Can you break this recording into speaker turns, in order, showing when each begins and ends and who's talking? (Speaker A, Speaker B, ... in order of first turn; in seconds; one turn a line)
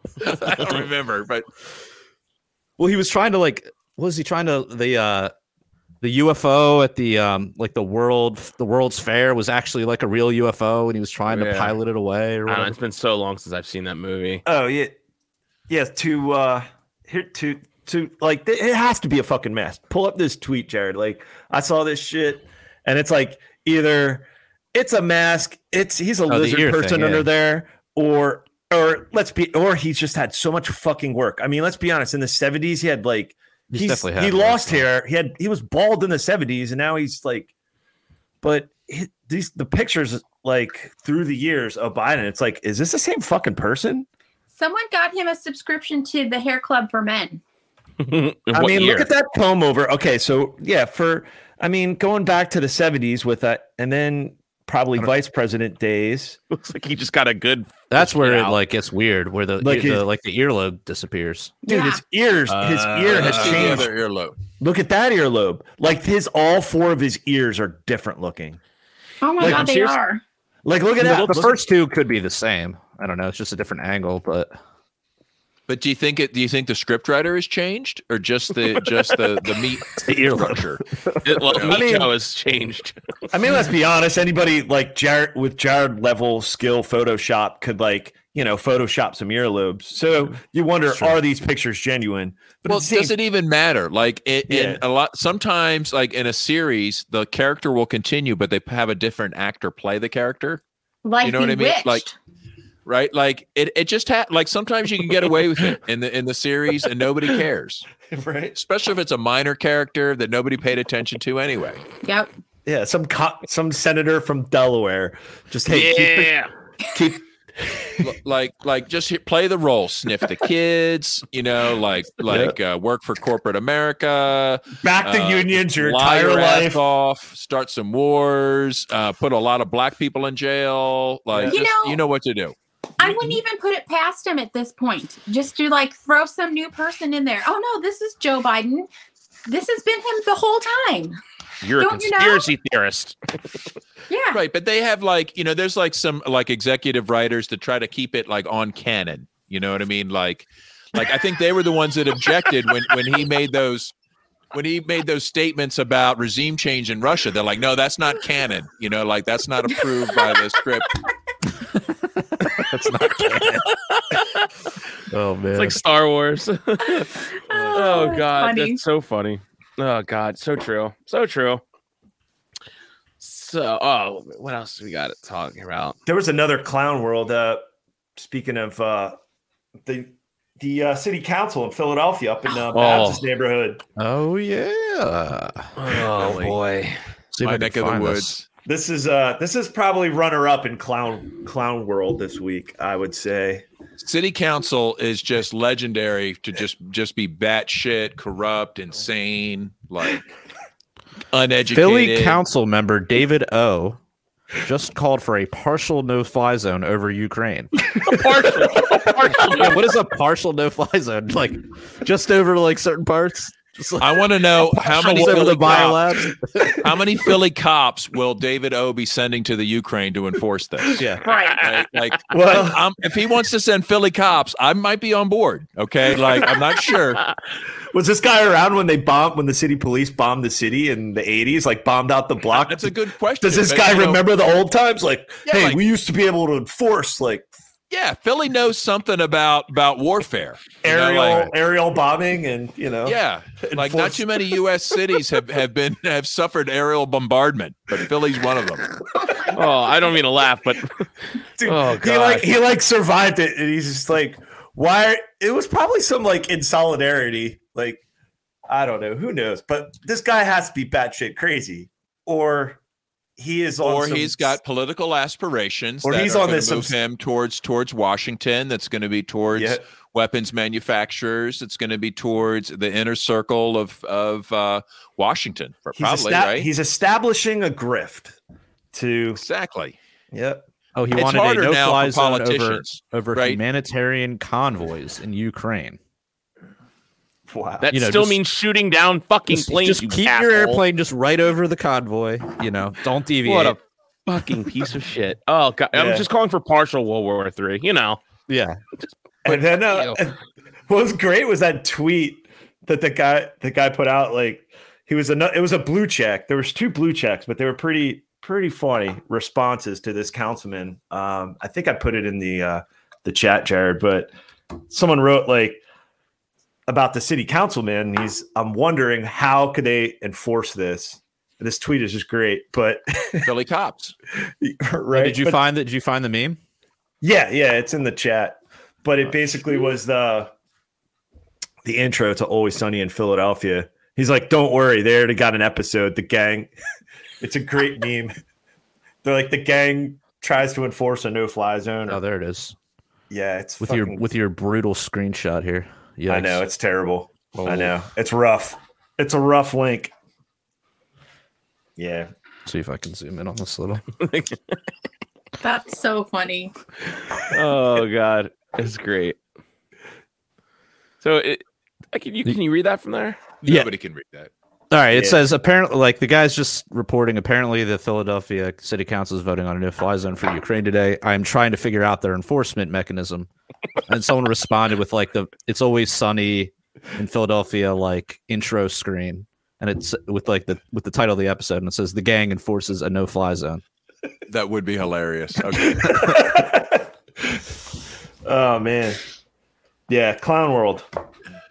Speaker A: 0.2-1.5
Speaker B: 2.8-5.3
Speaker B: 6.0-12.8
Speaker C: 11.3-11.8
Speaker C: 12.5-14.4
Speaker D: 14.4-15.0
Speaker D: 15.7-37.5
Speaker B: 26.3-27.3
Speaker B: 33.7-34.9
Speaker D: 38.4-44.1
Speaker E: 44.5-47.4
Speaker C: 48.0-49.1
Speaker D: 48.5-56.4
Speaker C: 56.5-58.6
Speaker B: 57.9-61.5
Speaker D: 59.6-60.0
Speaker E: 61.7-62.0
Speaker D: 61.7-63.9
Speaker C: 62.5-63.9
Speaker A: 63.1-64.4
Speaker D: 64.6-68.6
Speaker E: 69.2-70.2
Speaker D: 69.4-70.0
Speaker D: 70.7-71.6
Speaker B: 71.0-74.5
Speaker C: 71.0-71.4
Speaker A: 75.7-80.8
Speaker B: 80.1-80.5
Speaker C: 81.2-83.0
Speaker A: 81.5-81.9
Speaker D: 81.6-82.1
Speaker D: 83.3-93.2
Speaker A: 92.7-100.6
Speaker D: 94.5-94.8
Speaker E: 101.0-102.1
Speaker A: 101.2-102.0
Speaker A: 102.9-107.9
Speaker D: 108.1-108.6
Speaker A: 108.5-111.8
Speaker E: 112.0-112.3
Speaker D: 112.7-116.4
Speaker C: 115.7-116.5
Speaker D: 116.9-118.1
Speaker A: 118.0-132.6
Speaker D: 122.3-122.5
Speaker D: 124.8-126.8
Speaker D: 131.3-131.6
Speaker E: 131.5-132.0
Speaker E: 133.0-138.9
Speaker E: 139.5-141.2
Speaker C: 141.6-143.2
Speaker E: 141.8-142.5
Speaker E: 144.1-144.4
Speaker A: 144.3-153.9
Speaker A: 154.5-160.9
Speaker B: 162.4-163.7
Speaker B: 165.1-165.8
Speaker C: 165.6-171.6
Speaker E: 167.0-168.8
Speaker C: 173.2-176.0
Speaker D: 176.1-177.7
Speaker D: 178.2-179.2
Speaker D: 179.8-183.8
Speaker C: 182.7-183.2
Speaker B: 184.0-185.7
Speaker C: 185.8-187.0
Speaker B: 187.3-188.4
Speaker A: 187.4-188.5
Speaker D: 188.7-193.7
Speaker A: 194.0-200.3
Speaker A: 201.3-202.4
Speaker B: 201.7-204.0
Speaker B: 204.6-208.2
Speaker C: 208.0-209.8
Speaker B: 209.4-216.8
Speaker A: 214.0-221.1
Speaker E: 221.2-221.7
Speaker C: 221.3-221.7
Speaker A: 221.6-227.3
Speaker D: 222.3-222.8
Speaker D: 227.9-237.5
Speaker A: 232.6-234.2
Speaker A: 235.4-235.8
Speaker A: 237.9-241.5
Speaker D: 240.8-244.4
Speaker A: 243.1-248.9
Speaker C: 249.5-251.1
Speaker D: 251.6-258.0
Speaker C: 251.6-252.5
Speaker D: 258.7-262.8
Speaker D: 263.4-264.6
Speaker A: 263.8-276.7
Speaker D: 266.0-267.0
Speaker D: 269.5-269.8
Speaker D: 275.9-278.4
Speaker D: 278.9-279.4
Speaker A: 279.4-280.0
Speaker D: 280.3-280.6
Speaker B: 281.0-286.0
Speaker A: 281.1-283.6
Speaker D: 287.5-287.9
Speaker C: 287.8-290.8
Speaker B: 287.9-288.4
Speaker B: 289.5-293.8
Speaker C: 293.4-298.2
Speaker D: 295.9-296.3
Speaker B: 298.5-298.8
Speaker D: 299.4-300.4
Speaker C: 299.5-300.2
Speaker D: 300.9-314.3
Speaker D: 314.9-315.8
Speaker D: 316.9-323.5
Speaker A: 323.4-324.1
Speaker D: 324.6-325.6
Speaker B: 325.1-326.6
Speaker D: 327.2-330.5
Speaker D: 331.8-336.7
Speaker D: 337.4-338.4
Speaker D: 339.2-342.2
Speaker B: 342.1-342.8
Speaker D: 343.3-344.2
Speaker B: 343.8-346.6
Speaker D: 346.3-350.1
Speaker B: 347.6-347.9
Speaker D: 352.0-352.3
Speaker B: 352.7-354.0
Speaker C: 354.2-354.8
Speaker E: 355.6-356.7
Speaker C: 357.5-359.4
Speaker C: 361.2-363.6
Speaker A: 363.6-364.5
Speaker B: 364.9-373.5
Speaker D: 365.1-365.4
Speaker B: 374.1-383.8
Speaker A: 384.5-386.5
Speaker D: 385.9-387.6
Speaker D: 388.4-389.2
Speaker D: 390.1-391.1